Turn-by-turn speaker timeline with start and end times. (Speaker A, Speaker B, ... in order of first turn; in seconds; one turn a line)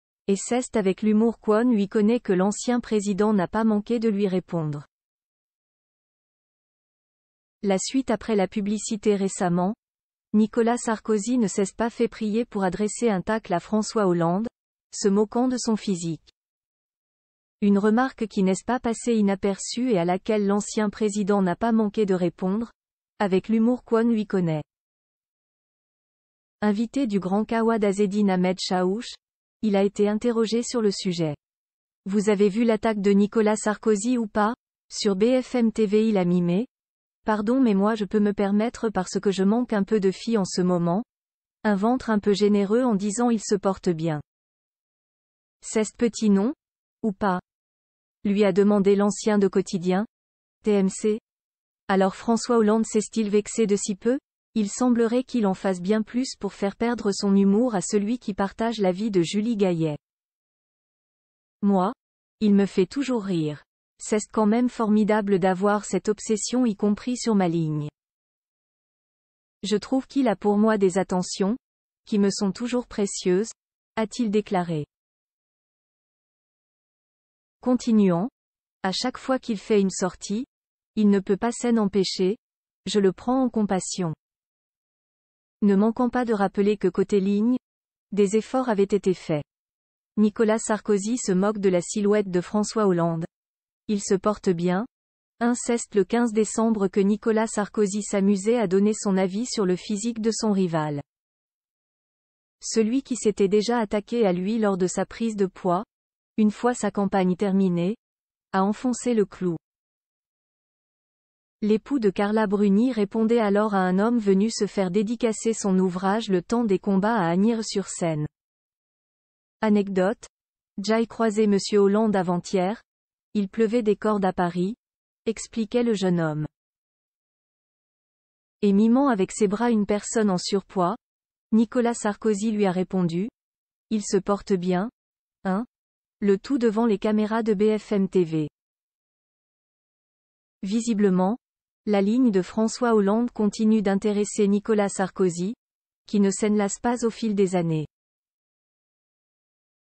Speaker A: 0.3-4.8
Speaker A: 7.6-9.8
Speaker A: 10.3-16.3
Speaker A: 17.6-24.6
Speaker A: 26.6-31.4
Speaker A: 32.0-36.7
Speaker A: 37.2-41.0
Speaker A: 41.6-44.2
Speaker A: 45.6-47.4
Speaker A: 48.2-50.1
Speaker A: 50.6-51.2
Speaker A: 51.9-60.0
Speaker A: 61.6-67.9
Speaker A: 69.6-74.9
Speaker A: 77.6-78.3
Speaker A: 78.8-84.2
Speaker A: 85.6-87.6
Speaker A: 88.1-89.4
Speaker A: 90.2-93.3
Speaker A: 93.9-94.9
Speaker A: 95.4-101.0
Speaker A: 102.6-105.8
Speaker A: 106.4-108.0
Speaker A: 108.5-109.6
Speaker A: 111.6-118.3
Speaker A: 119.6-126.5
Speaker A: 128.6-131.0
Speaker A: 131.5-133.3
Speaker A: 133.9-134.9
Speaker A: 136.2-138.5
Speaker A: 140.6-147.9